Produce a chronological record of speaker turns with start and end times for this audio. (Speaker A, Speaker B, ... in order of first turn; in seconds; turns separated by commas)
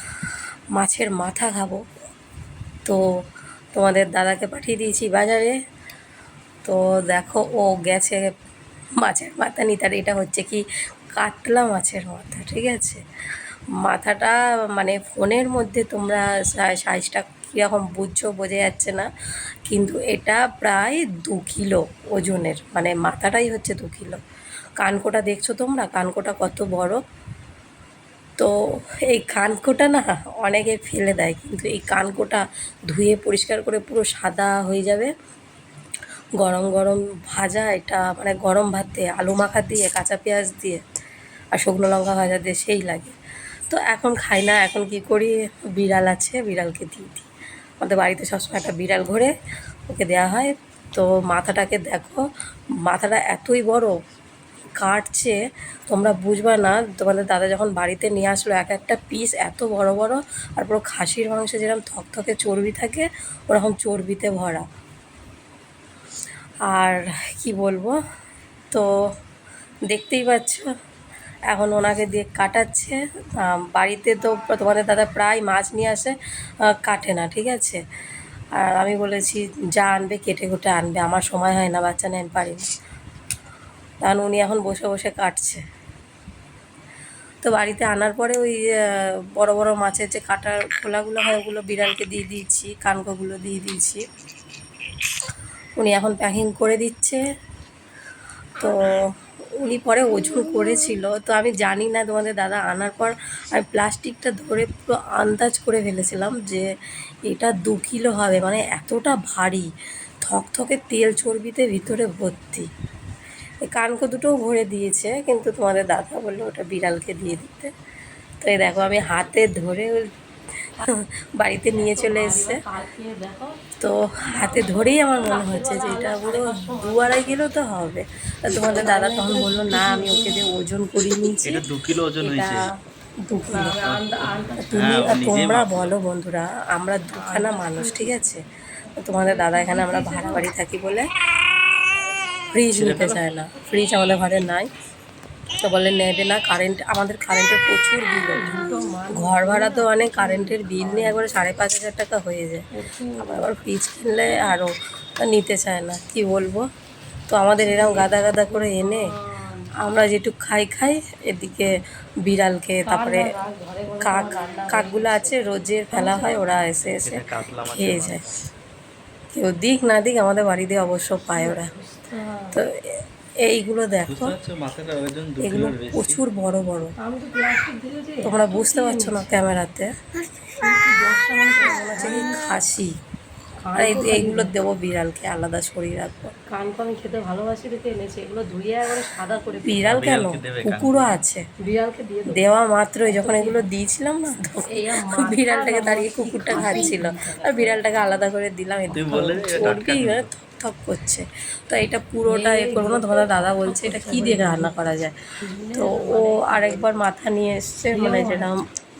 Speaker A: 0.7-1.8, Speaker A: 3.7-5.5, Speaker A: 6.6-8.3, Speaker A: 9.0-10.6, Speaker A: 11.2-13.0, Speaker A: 13.8-19.1, Speaker A: 19.7-24.2, Speaker A: 24.8-27.0, Speaker A: 29.1-35.1, Speaker A: 36.4-40.8, Speaker A: 41.5-43.1, Speaker A: 43.7-47.3, Speaker A: 47.8-49.3, Speaker A: 49.9-52.2, Speaker A: 52.9-53.9, Speaker A: 54.8-55.4, Speaker A: 55.9-64.6, Speaker A: 66.7-67.9, Speaker A: 69.9-70.7, Speaker A: 71.5-76.1, Speaker A: 76.7-77.8, Speaker A: 78.5-82.7, Speaker A: 84.0-85.6, Speaker A: 87.4-94.0, Speaker A: 95.8-97.2, Speaker A: 98.6-99.0, Speaker A: 99.6-106.7, Speaker A: 107.3-109.7, Speaker A: 110.2-112.7, Speaker A: 113.7-117.7, Speaker A: 118.4-120.1, Speaker A: 120.8-122.6, Speaker B: 121.7-123.6, Speaker A: 123.8-131.6, Speaker B: 124.2-127.4, Speaker B: 128.5-130.5, Speaker C: 131.4-132.7, Speaker A: 132.2-132.7, Speaker A: 133.3-133.8, Speaker B: 133.5-135.2, Speaker C: 133.8-135.9, Speaker A: 134.6-138.4, Speaker B: 137.1-138.2, Speaker B: 139.0-140.5, Speaker A: 139.0-141.1, Speaker A: 142.5-144.7, Speaker C: 142.7-143.2, Speaker A: 145.5-152.7, Speaker B: 148.3-151.5, Speaker B: 152.7-153.6, Speaker A: 153.2-156.7, Speaker A: 157.3-159.1, Speaker B: 157.6-159.7, Speaker A: 159.8-161.7, Speaker A: 162.2-163.3, Speaker B: 162.8-166.6, Speaker A: 164.0-168.2, Speaker C: 167.0-168.5, Speaker A: 169.3-171.7, Speaker B: 171.2-172.6, Speaker A: 173.4-174.3, Speaker C: 174.1-176.2, Speaker A: 175.4-176.9, Speaker B: 177.0-179.5, Speaker A: 178.2-179.9, Speaker B: 180.6-182.4, Speaker A: 181.8-182.9, Speaker B: 183.6-184.5, Speaker A: 183.8-186.3, Speaker B: 186.5-189.9, Speaker A: 189.6-191.4, Speaker C: 189.8-191.2, Speaker B: 191.6-192.4, Speaker A: 192.3-205.1, Speaker B: 193.0-193.7, Speaker B: 194.7-197.9, Speaker C: 198.9-200.3, Speaker B: 202.2-204.8, Speaker B: 205.4-206.9, Speaker A: 205.8-208.7, Speaker B: 207.9-208.5